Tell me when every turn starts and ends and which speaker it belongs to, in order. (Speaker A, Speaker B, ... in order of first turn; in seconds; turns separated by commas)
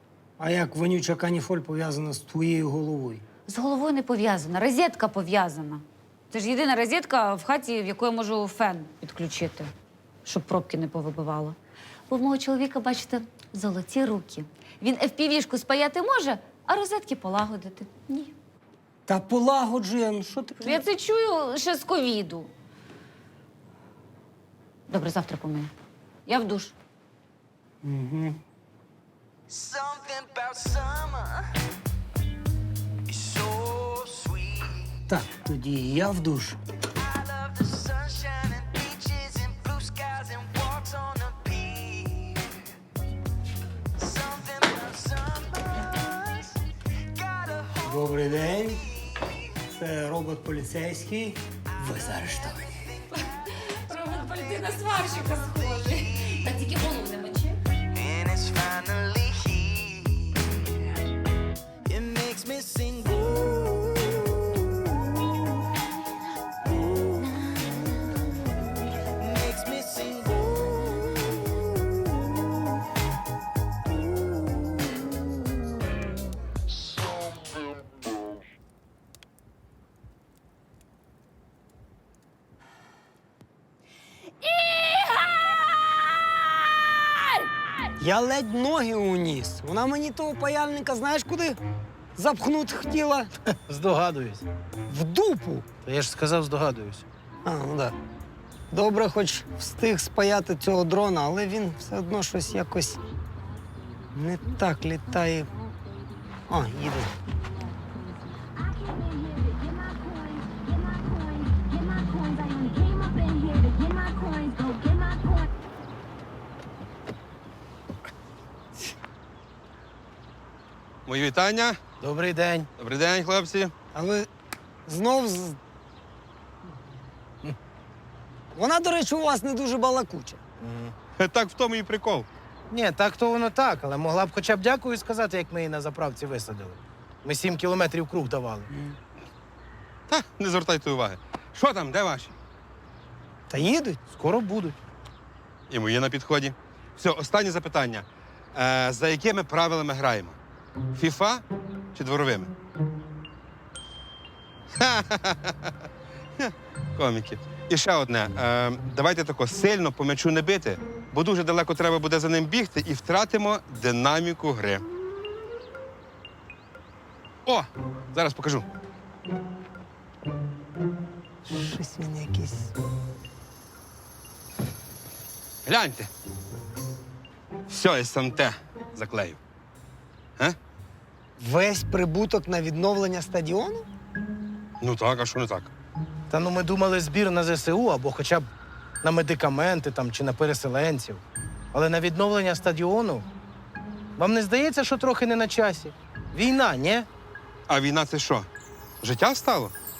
Speaker A: 0.4-3.2, Speaker B: 3.5-9.7, Speaker B: 10.2-11.6, Speaker B: 12.1-18.3, Speaker A: 19.1-20.8, Speaker B: 20.6-22.5, Speaker B: 24.9-25.7, Speaker B: 26.3-26.7, Speaker A: 27.8-28.4, Speaker A: 35.1-36.6, Speaker A: 47.8-48.9, Speaker A: 49.7-52.8, Speaker B: 53.1-57.6, Speaker C: 62.0-63.1, Speaker C: 69.6-69.9, Speaker A: 88.0-91.6, Speaker A: 92.2-93.3, Speaker C: 93.7-94.5, Speaker A: 94.9-95.7, Speaker C: 95.8-97.0, Speaker A: 97.4-97.9, Speaker A: 98.7-103.0, Speaker A: 104.1-105.5, Speaker A: 106.5-107.1, Speaker D: 121.0-121.8, Speaker C: 122.0-122.7, Speaker D: 122.8-123.7, Speaker A: 123.9-124.3, Speaker A: 124.8-125.6, Speaker A: 128.5-130.4, Speaker C: 130.6-130.9, Speaker D: 131.2-132.3, Speaker C: 132.7-138.7, Speaker D: 140.1-142.3, Speaker A: 143.5-144.0, Speaker C: 144.1-144.8, Speaker D: 145.7-150.4, Speaker D: 150.9-151.4, Speaker D: 151.9-152.5, Speaker D: 154.7-155.7, Speaker D: 156.4-164.8, Speaker D: 167.4-168.7, Speaker A: 171.4-172.7, Speaker D: 175.7-176.1, Speaker D: 177.7-179.4, Speaker A: 181.4-183.9, Speaker D: 184.8-185.7, Speaker C: 186.3-188.5, Speaker C: 189.0-191.2, Speaker C: 191.7-193.2, Speaker C: 194.2-197.1, Speaker D: 197.7-198.5, Speaker D: 199.0-199.7